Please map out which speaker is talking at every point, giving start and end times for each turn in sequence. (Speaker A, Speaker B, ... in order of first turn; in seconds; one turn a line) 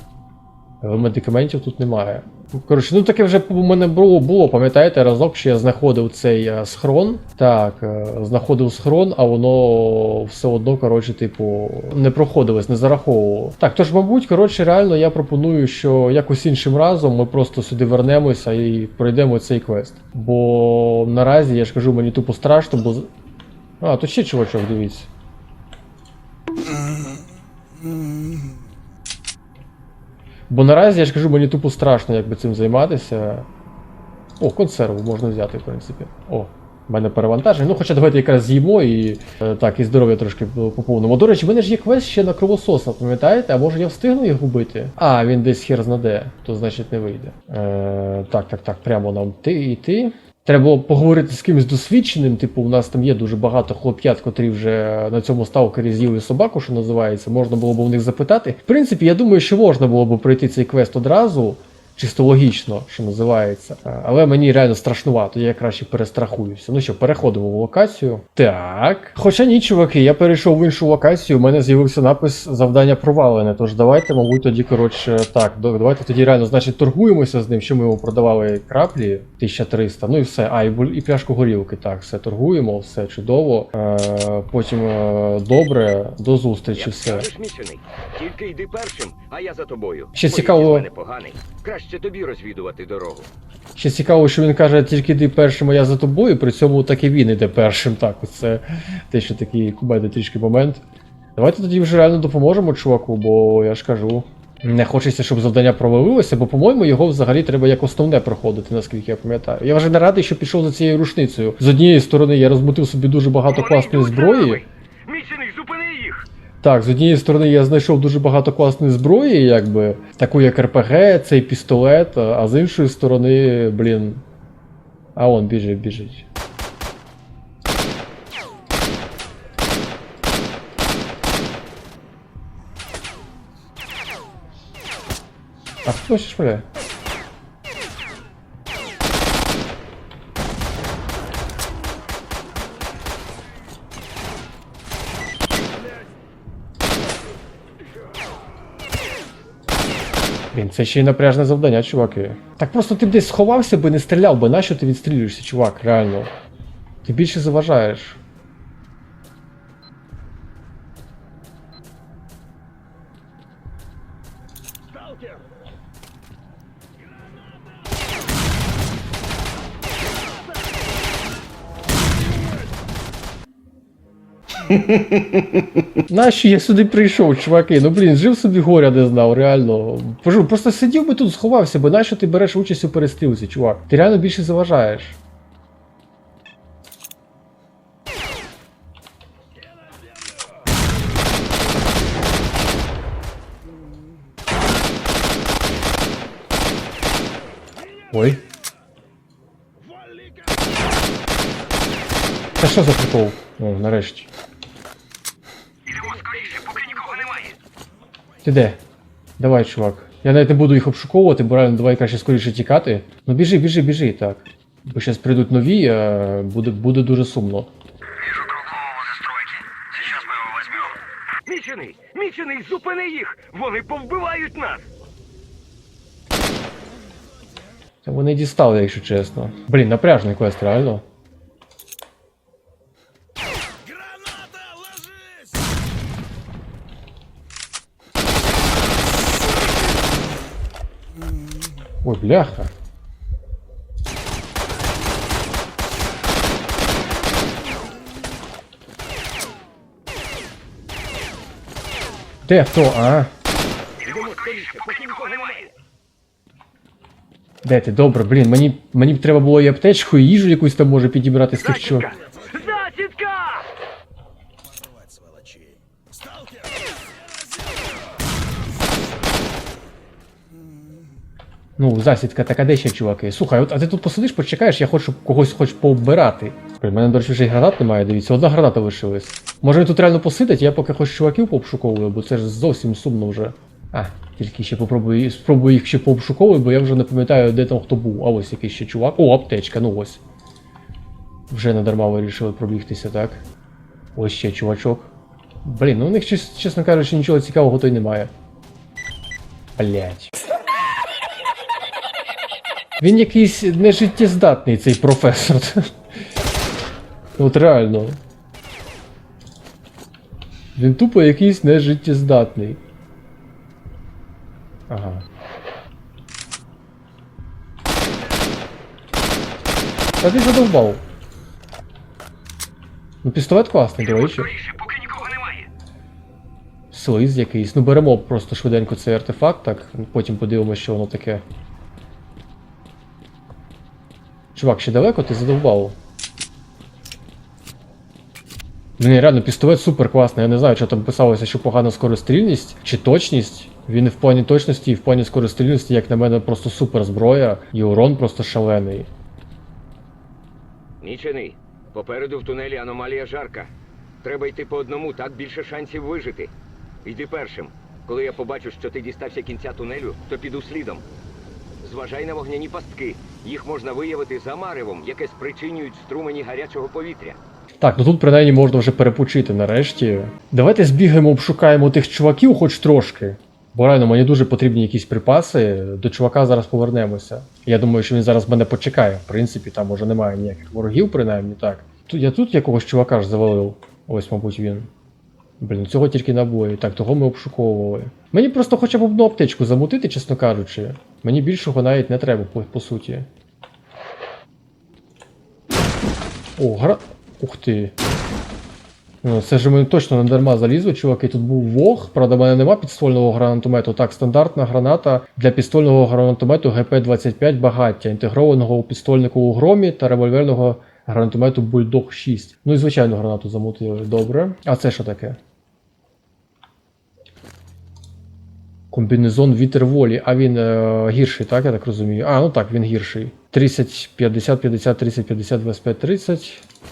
Speaker A: 0.8-23.1
Speaker A: 23.8-25.1
Speaker A: 30.5-33.5
Speaker A: 34.4-87.3
Speaker B: 86.7-93.3
Speaker A: 90.2-90.9
Speaker A: 93.8-100.8
Speaker A: 101.4-114.6
Speaker B: 113.5-116.3
Speaker A: 116.6-124.2
Speaker A: 125.2-126.3
Speaker A: 135.8-136.7
Speaker A: 150.5-156.3
Speaker A: 157.0-158.2
Speaker A: 176.1-185.2
Speaker A: 198.1-198.4
Speaker A: 202.6-204.3
Speaker B: 205.9-207.6
Speaker A: 208.4-208.8
Speaker A: 209.4-217.7
Speaker B: 218.3-224.9
Speaker A: 228.0-231.0
Speaker A: 242.0-242.7
Speaker A: 252.4-253.3
Speaker B: 254.0-255.7
Speaker A: 257.6-262.1
Speaker B: 261.6-263.7
Speaker A: 271.8-290.2
Speaker A: 291.5-293.4
Speaker A: 294.1-295.1
Speaker A: 295.6-298.3
Speaker A: 299.8-300.3
Speaker A: 303.0-305.9
Speaker A: 307.4-308.2
Speaker A: 310.8-312.8
Speaker A: 314.9-315.2
Speaker A: 320.2-321.0
Speaker A: 323.2-324.5
Speaker B: 324.2-325.7
Speaker A: 326.9-331.4
Speaker A: 334.5-336.0
Speaker A: 339.0-349.1
Speaker B: 351.0-353.7
Speaker B: 354.2-356.5
Speaker B: 357.0-361.0
Speaker B: 361.8-367.4
Speaker A: 367.8-384.9
Speaker A: 385.6-393.3
Speaker A: 396.6-397.9
Speaker A: 399.2-415.4
Speaker A: 418.9-426.6